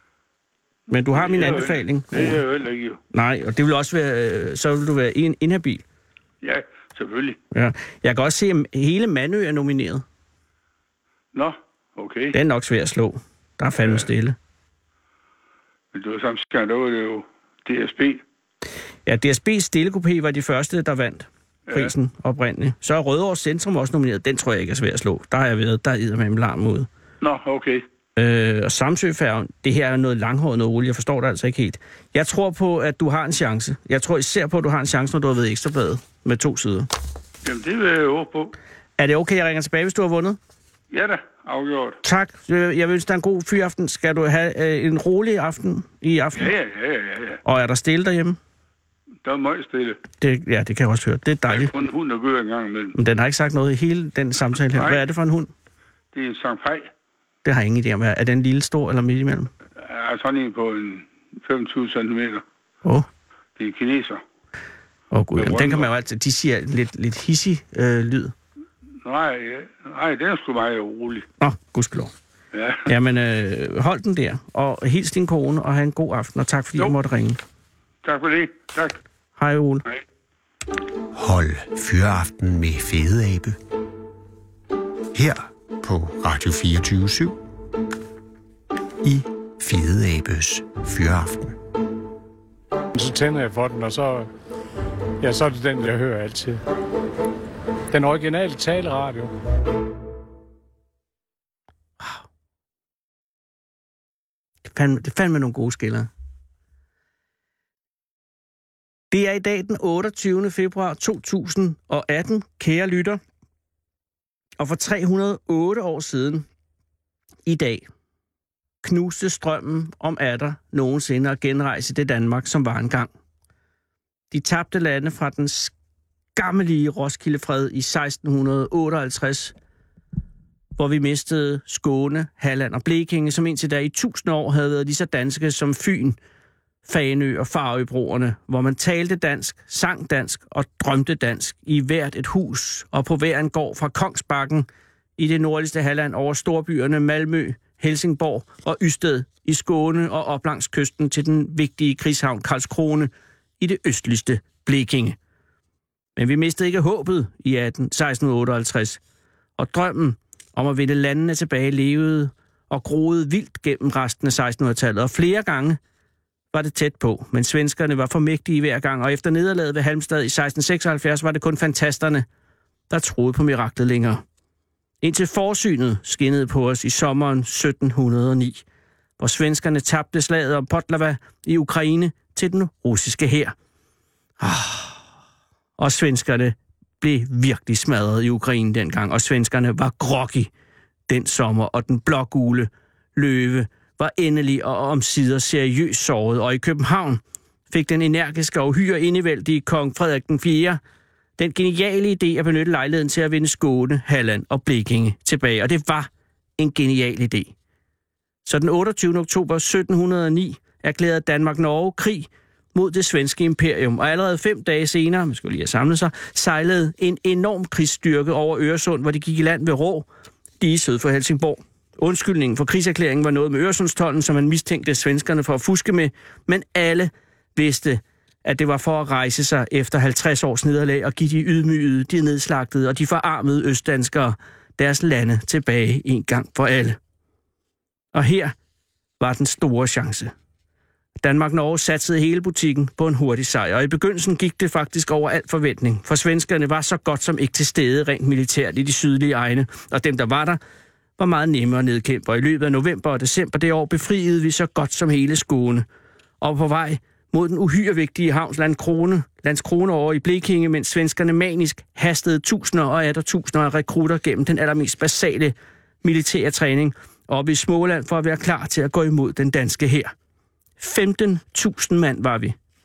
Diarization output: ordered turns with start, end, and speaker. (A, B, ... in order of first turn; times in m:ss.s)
0:00.9-0:02.4 A
0:01.1-0:03.0 B
0:03.1-0:05.8 A
0:06.4-0:07.4 B
0:07.5-0:10.0 A
0:11.3-0:12.4 B
0:12.3-0:14.4 A
0:13.8-0:14.1 B
0:15.9-0:18.2 B
0:19.1-0:26.9 A
0:27.2-0:27.8 B
0:28.2-0:36.9 A
0:37.4-0:38.6 B
0:39.0-0:40.4 A
0:40.9-0:42.0 B
0:42.0-0:46.5 A
0:46.4-0:47.4 B
0:47.4-0:48.4 A
0:49.2-0:50.0 B
0:50.2-0:51.7 A
0:51.5-0:53.0 B
0:53.0-0:55.5 A
0:54.7-0:55.0 B
0:56.1-0:56.9 B
0:57.4-0:59.5 A
0:59.8-1:02.4 B
1:03.6-1:04.2 B
1:05.1-1:08.3 A
1:05.4-1:05.9 B
1:09.0-1:11.3 B
1:11.4-1:12.1 A
1:12.5-1:12.9 B
1:12.9-1:17.4 A
1:18.0-1:19.0 B
1:19.4-1:19.8 A
1:21.1-1:23.6 C
1:25.1-1:27.4 C
1:29.0-1:31.6 C
1:33.0-1:34.3 D
1:35.2-1:36.6 D
1:37.9-1:39.3 D
1:44.7-1:46.1 A
1:49.1-1:53.2 A
1:54.6-1:56.5 A
1:57.5-1:57.9 A
1:58.8-2:03.1 A
2:04.3-2:05.7 A
2:06.4-2:09.5 A
2:10.8-2:16.2 A
2:16.8-2:35.2 A
2:36.2-2:39.0 A
2:39.6-2:45.8 A
2:46.5-2:52.2 A
2:52.9-2:54.2 A
2:55.0-2:58.6 A
2:59.2-3:03.6 A
3:04.4-3:05.0 A
3:05.8-3:10.5 A
3:11.1-3:20.8 A
3:21.4-3:27.5 A
3:28.4-3:40.1 A
3:40.6-3:57.0 A
3:58.1-3:58.6 A
3:59.2-4:00.3 A
4:01.2-4:10.6 A
4:11.2-4:15.8 A
4:16.4-4:30.1 A
4:30.8-4:32.6 A